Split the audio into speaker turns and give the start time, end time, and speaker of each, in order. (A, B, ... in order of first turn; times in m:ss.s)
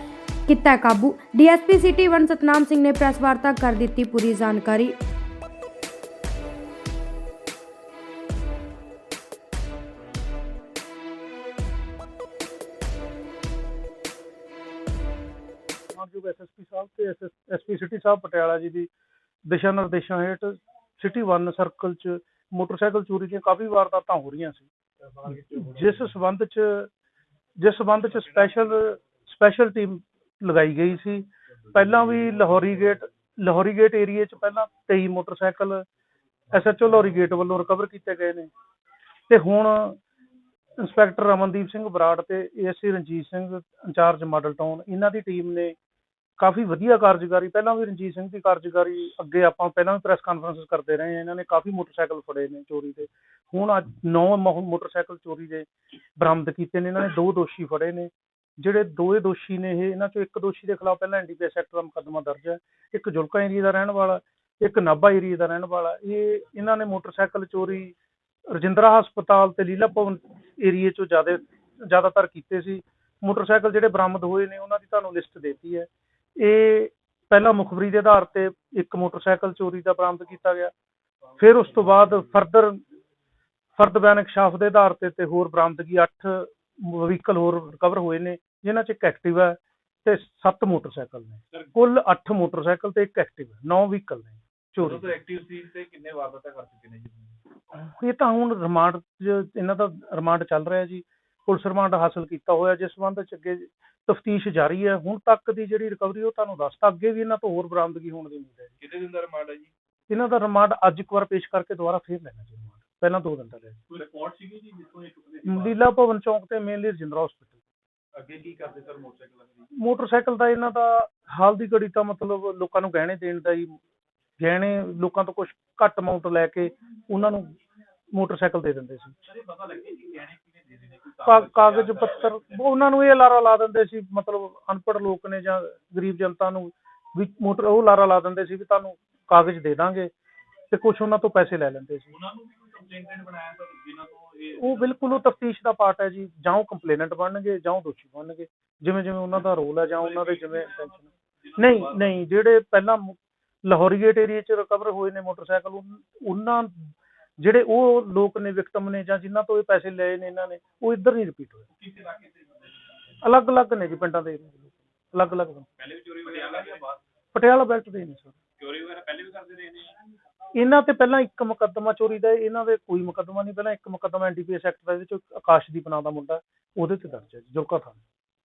0:00.5-0:04.9 A
0:15.9-0:18.9 B
0:19.5-0:24.7 B
0:25.2-0:26.0 C
0:25.3-0:26.9 B
0:27.6-0:35.8 B
0:36.5-0:38.5 B
0:39.3-0:40.0 B
0:40.8-0:45.8 B
0:46.4-1:08.0 B
1:08.5-1:20.7 B
1:21.4-1:22.8 B
1:23.8-1:35.1 B
1:34.8-1:37.4 C
1:37.7-1:48.7 B
1:48.8-1:49.7 C
1:50.1-1:53.8 B
1:53.9-1:55.8 C
1:55.4-1:57.6 B
1:58.2-1:59.7 C
1:59.8-2:03.8 B
2:04.4-2:07.5 B
2:08.1-2:09.2 B
2:09.2-2:12.6 C
2:11.2-2:20.1 B
2:20.7-2:22.1 B
2:22.1-2:25.2 C
2:24.6-2:31.0 B
2:30.0-2:32.2 C
2:31.6-2:41.6 B
2:41.8-2:43.2 C
2:43.2-2:45.7 B
2:45.8-2:47.0 C
2:47.3-2:48.4 B
2:48.6-2:50.0 C
2:50.5-2:58.0 B